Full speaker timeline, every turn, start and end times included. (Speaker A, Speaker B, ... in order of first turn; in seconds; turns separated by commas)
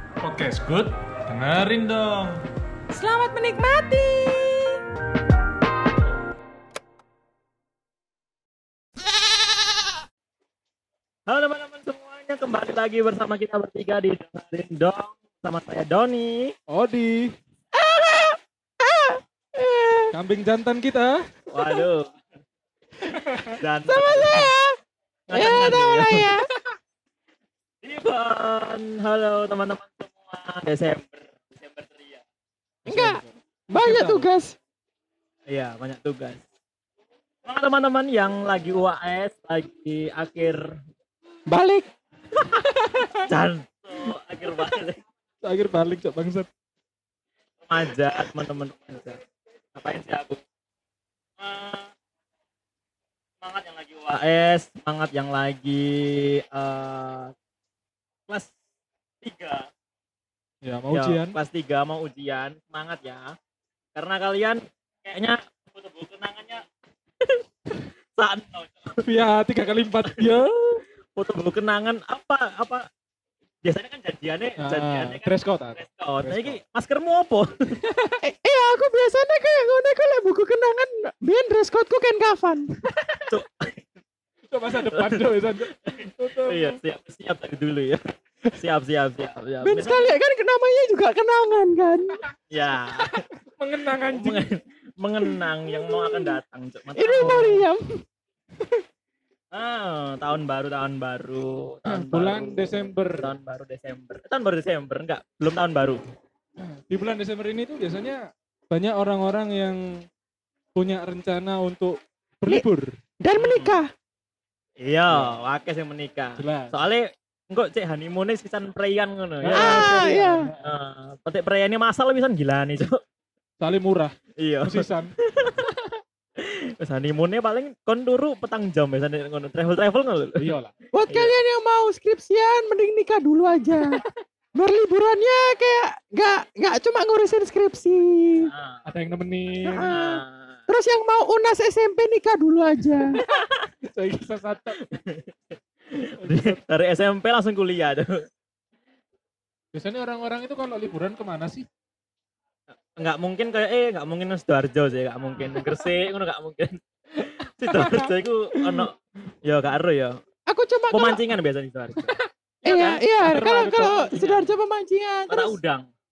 Speaker A: 0.2-2.4, Speaker B: 2.9-4.8, Speaker C: 11.3-16.5, Speaker D: 16.7-17.3, Speaker B: 17.7-20.1, Speaker D: 20.1-21.2, Speaker C: 21.5-22.1, Speaker D: 23.1-23.6, Speaker C: 23.6-24.5, Speaker B: 23.9-24.7, Speaker C: 25.3-26.3, Speaker B: 25.3-26.5, Speaker C: 27.8-32.2, Speaker D: 32.8-34.3, Speaker B: 32.9-33.2, Speaker B: 33.7-34.5, Speaker C: 35.5-36.4, Speaker C: 37.4-40.7, Speaker B: 41.5-41.9, Speaker B: 42.4-43.2, Speaker C: 43.2-45.0, Speaker D: 45.4-46.5, Speaker C: 47.6-49.2, Speaker C: 49.8-50.4, Speaker C: 51.4-51.9, Speaker C: 53.4-57.3, Speaker C: 59.2-59.7, Speaker D: 60.6-61.4, Speaker C: 60.9-63.3, Speaker C: 63.9-66.6, Speaker C: 67.2-69.1, Speaker D: 69.0-70.8, Speaker C: 71.2-72.8, Speaker C: 73.6-77.8, Speaker D: 74.6-76.6, Speaker D: 77.8-78.2, Speaker B: 78.2-82.7, Speaker C: 83.3-83.8, Speaker D: 84.5-86.8, Speaker C: 84.8-88.0, Speaker C: 88.5-90.1, Speaker B: 89.6-92.2, Speaker C: 92.5-93.2, Speaker D: 93.0-94.5, Speaker C: 94.0-97.6, Speaker B: 95.8-96.3, Speaker B: 96.9-97.8, Speaker C: 99.5-106.0, Speaker D: 101.9-103.3, Speaker D: 106.6-109.9, Speaker D: 110.7-113.0, Speaker B: 113.2-113.9, Speaker C: 113.4-113.8, Speaker C: 114.8-120.0, Speaker D: 115.1-115.4, Speaker D: 116.4-116.7, Speaker D: 119.4-120.7, Speaker B: 119.5-120.5, Speaker C: 120.6-123.0, Speaker D: 123.6-125.1, Speaker C: 124.4-125.7, Speaker C: 126.4-130.5, Speaker D: 130.4-130.7, Speaker B: 130.9-134.0, Speaker C: 131.1-131.3, Speaker B: 134.6-138.5, Speaker C: 138.4-138.8, Speaker D: 138.8-139.9, Speaker B: 139.7-143.2, Speaker C: 139.8-140.6, Speaker C: 143.2-143.7, Speaker D: 143.8-144.8, Speaker C: 144.8-148.2, Speaker D: 146.2-146.6, Speaker D: 149.7-151.7, Speaker C: 152.8-160.2, Speaker D: 155.6-155.8, Speaker D: 157.6-158.1, Speaker B: 160.5-161.2, Speaker C: 160.9-164.5, Speaker B: 162.6-165.5, Speaker D: 163.2-164.1, Speaker C: 165.3-165.9